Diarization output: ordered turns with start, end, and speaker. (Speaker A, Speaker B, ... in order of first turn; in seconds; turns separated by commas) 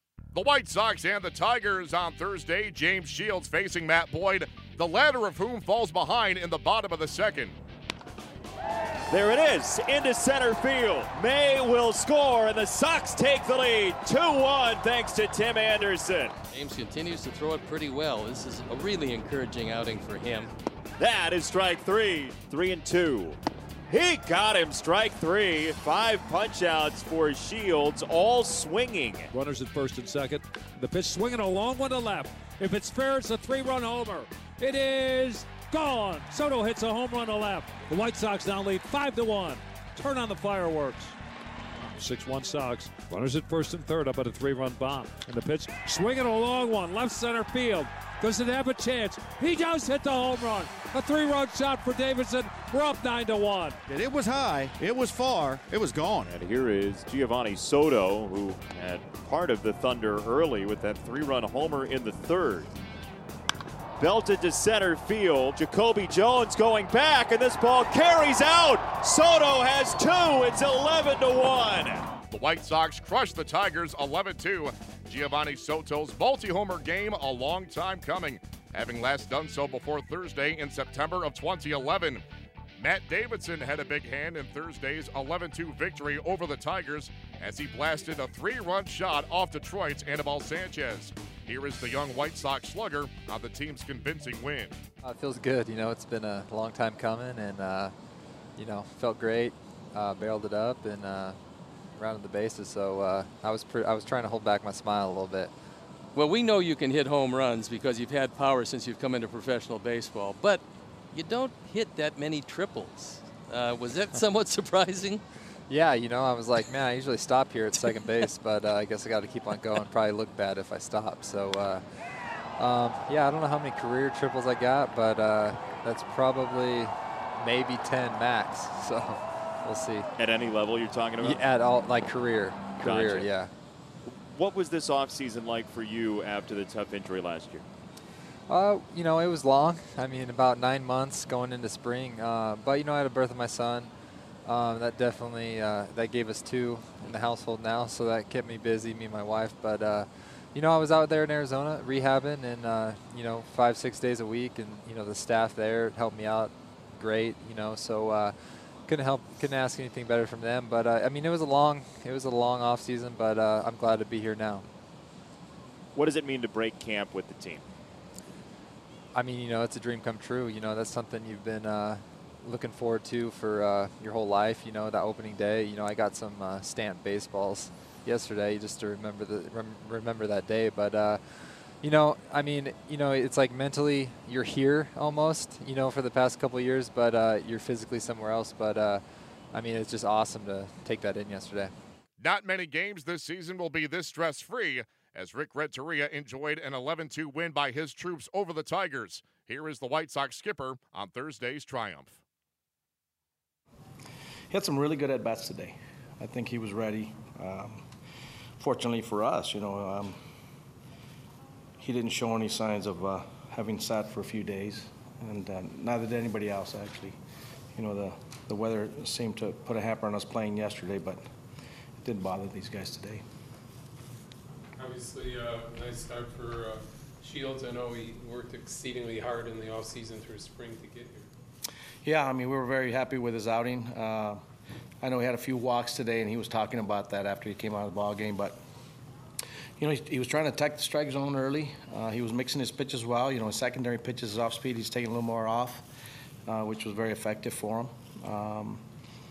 Speaker A: 0.3-7.6, Speaker B: 9.1-16.3, Speaker C: 16.5-20.5, Speaker B: 21.0-23.4, Speaker B: 23.9-29.3, Speaker D: 29.3-41.1, Speaker D: 41.9-53.8, Speaker E: 53.9-56.3, Speaker B: 56.2-62.7, Speaker B: 64.0-72.0, Speaker A: 72.3-82.2, Speaker A: 82.8-94.8, Speaker F: 95.0-97.9, Speaker F: 98.6-101.4, Speaker F: 102.0-105.5, Speaker C: 106.1-115.2, Speaker F: 115.7-121.8, Speaker F: 122.6-130.1, Speaker B: 130.2-131.4, Speaker F: 131.2-133.5, Speaker B: 132.8-133.3, Speaker B: 134.2-137.6, Speaker F: 138.5-143.9, Speaker F: 144.4-158.3, Speaker F: 158.9-164.6, Speaker B: 165.9-167.6, Speaker F: 169.1-189.0, Speaker F: 189.5-191.7, Speaker A: 192.2-202.2, Speaker G: 204.5-207.8, Speaker G: 208.6-210.2, Speaker G: 211.8-217.2, Speaker G: 217.7-221.2, Speaker G: 222.0-223.2, Speaker H: 224.8-231.2, Speaker G: 232.0-234.4, Speaker G: 235.0-238.6, Speaker G: 239.8-245.9, Speaker G: 246.5-248.8